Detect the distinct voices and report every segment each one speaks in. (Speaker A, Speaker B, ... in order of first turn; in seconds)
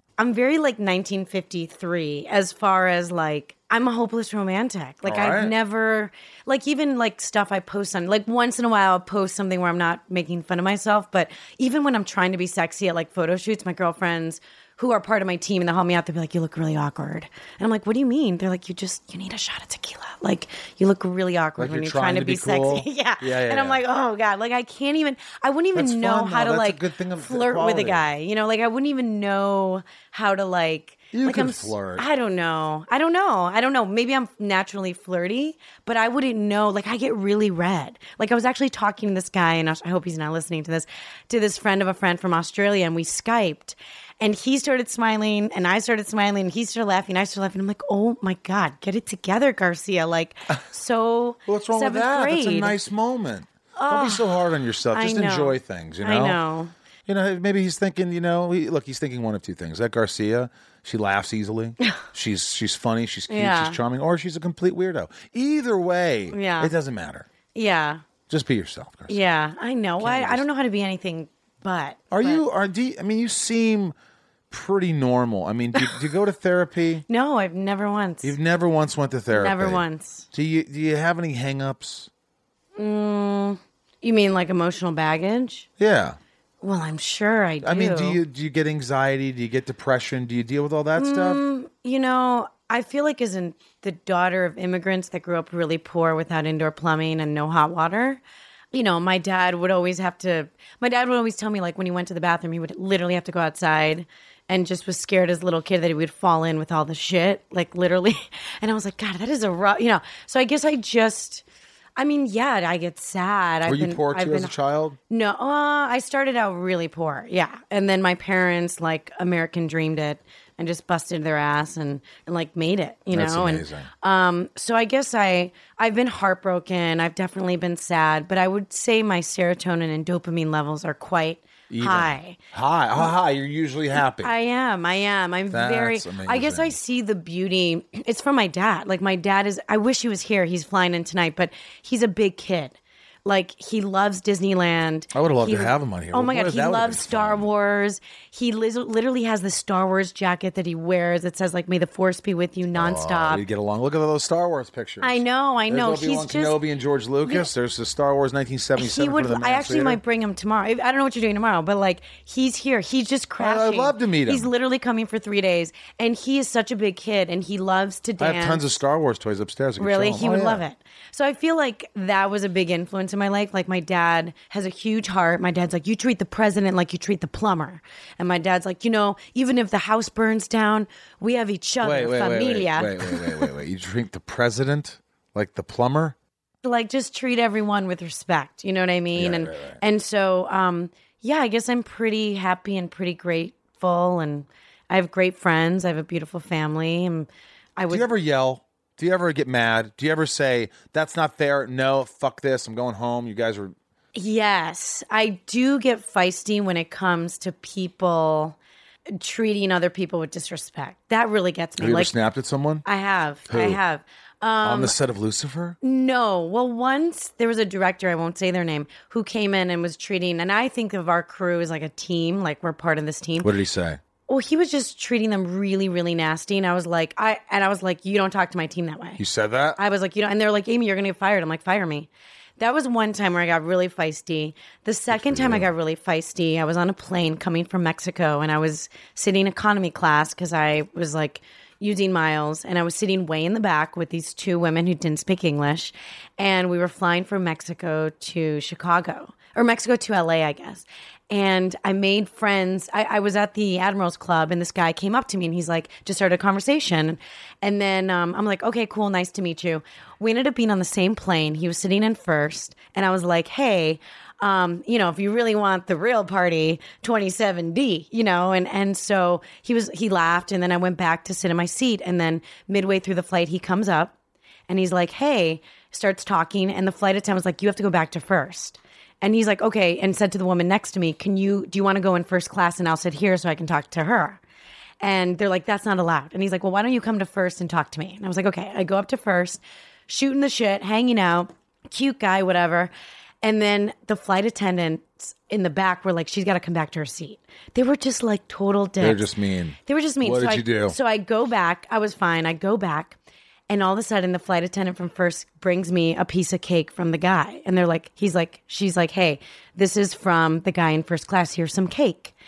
Speaker A: 0.2-52.8, 53.8-56.7, 63.3-63.8, 66.3-66.7, 67.5-68.0, 69.1-72.4, 77.1-78.4, 79.3-80.3, 82.8-85.7, 86.6-88.2, 91.0-111.4, 112.0-114.5, 115.1-132.4, 134.1-153.4, 155.0-156.6, 158.8-168.7, 169.8-183.5, 186.6-198.1, 204.2-208.6, 209.2-212.1, 212.8-214.9, 215.8-223.5, 224.3-229.2, 229.8-274.1, 274.7-284.4, 285.0-299.3, 299.9-303.2, 303.7-312.3
Speaker B: 5.0-5.5, 21.6-23.8, 25.7-28.1, 31.1-32.0, 51.5-56.4, 57.1-67.3, 68.3-69.3, 70.0-70.5, 72.1-73.9, 74.5-77.0, 78.2-82.1, 85.8-86.2, 87.6-91.4, 113.6-115.0, 123.1-123.9, 131.7-134.3, 135.5-136.8, 145.1-147.5, 152.7-160.0, 163.4-164.5, 168.2-170.6, 181.8-186.2, 189.2-189.8, 197.9-203.8, 211.8-212.8, 213.5-213.8, 214.6-215.8, 223.4-224.0, 229.2-229.8, 235.1-235.7, 299.0-301.0